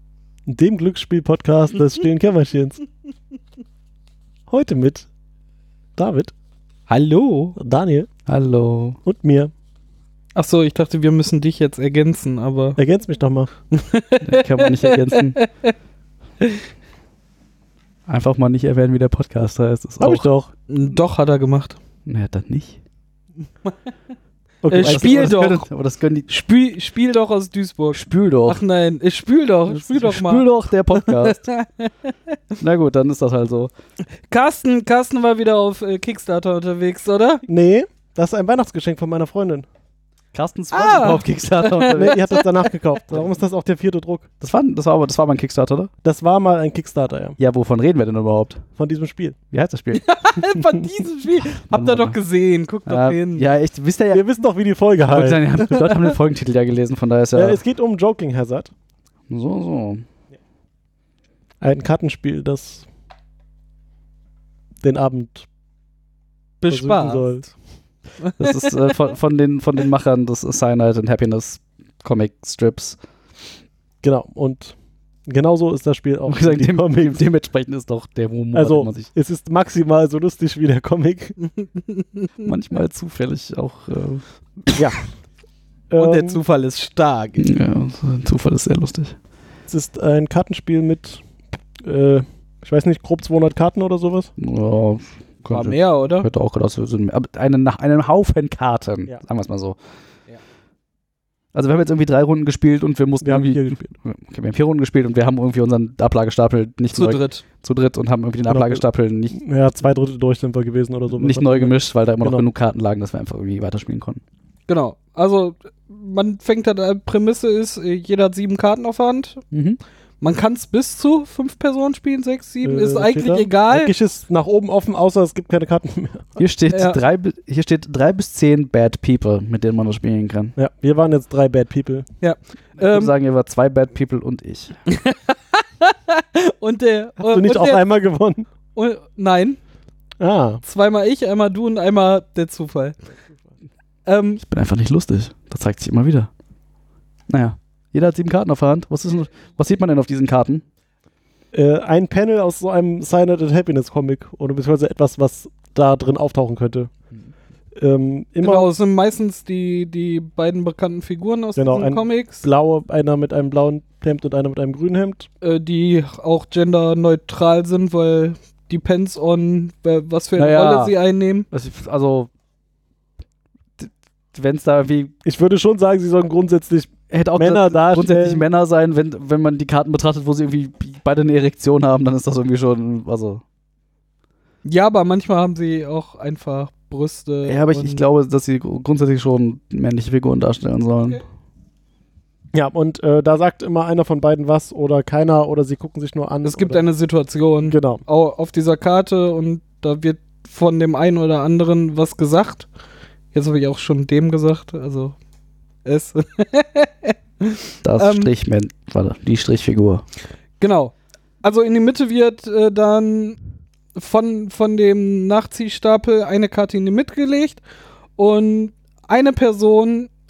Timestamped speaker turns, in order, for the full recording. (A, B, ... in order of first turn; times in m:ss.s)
0:00.5-0:02.8 A
0:04.5-0:05.1 A
0:06.0-0:06.3 A
0:06.9-0:07.6 B
0:07.6-0:08.1 A
0:08.3-0:09.0 C
0:09.0-0:09.5 A
0:10.4-0:12.8 B
0:12.8-0:13.5 A
0:13.7-0:15.7 B
0:14.2-0:15.4 C
0:18.1-0:20.3 C
0:20.0-0:20.5 A
0:20.7-0:21.8 B
0:22.1-0:22.8 C
0:24.6-0:25.4 A
0:24.7-0:25.7 B
0:24.8-0:26.3 C
0:26.3-0:30.4 B
0:27.9-0:28.6 C
0:29.7-0:31.4 C
0:31.0-0:32.2 B
0:32.6-0:33.7 C
0:34.3-0:37.4 B
0:37.5-0:39.7 A
0:40.3-0:42.3 C
0:40.7-0:42.4 B
0:41.9-0:44.3 A
0:44.4-0:45.9 C
0:46.0-0:47.4 A
0:47.4-0:48.6 C
0:48.8-0:49.4 A
0:49.5-0:50.1 C
0:50.0-0:53.5 B
0:51.7-0:52.2 C
0:52.9-0:54.2 C
0:54.1-0:55.8 A
0:55.1-0:57.6 C
0:57.3-0:58.7 A
0:59.3-1:00.0 C
1:01.6-1:02.9 A
1:04.8-1:05.5 A
1:06.6-1:07.3 B
1:06.7-1:07.5 A
1:08.2-1:08.9 B
1:08.4-1:13.0 C
1:14.0-1:17.2 A
1:16.3-1:19.1 C
1:18.5-1:21.4 A
1:21.6-1:22.5 B
1:22.4-1:24.8 C
1:25.9-1:26.4 A
1:26.0-1:27.5 B
1:27.4-1:29.2 C
1:29.7-1:31.2 A
1:31.8-1:34.3 A
1:34.4-1:39.8 C
1:35.5-1:36.3 B
1:41.5-1:49.4 C
1:43.2-1:43.9 A
1:46.9-1:47.4 B
1:48.5-1:52.4 A
1:51.2-1:54.2 C
1:54.7-1:59.4 B
1:59.5-1:59.8 C
2:00.2-2:03.9 B
2:02.6-2:06.4 A
2:06.4-2:10.6 C
2:06.7-2:07.0 B
2:10.6-2:12.1 A
2:12.2-2:13.1 B
2:12.8-2:14.8 C
2:14.9-2:17.8 B
2:17.2-2:18.5 A
2:18.8-2:19.6 B
2:20.2-2:20.6 A
2:20.6-2:23.0 B
2:24.1-2:24.4 B
2:24.4-2:26.3 C
2:27.3-2:30.6 C
2:31.5-2:36.9 A
2:37.8-2:38.7 A
2:38.4-2:42.4 B
2:41.6-2:45.3 A
2:45.4-2:51.5 B
2:50.4-2:50.9 C
2:51.5-2:52.3 C
2:53.8-2:55.1 C
2:55.2-2:58.4 A
2:57.1-3:03.4 C
3:04.6-3:08.0 B
3:07.5-3:11.2 C
3:12.5-3:16.8 A
3:16.4-3:22.7 B
3:17.7-3:18.0 A
3:23.3-3:25.2 B
3:25.8-3:28.3 B
3:27.8-3:30.0 C
3:30.6-3:33.4 B
3:34.0-3:37.6 B
3:38.2-3:40.1 B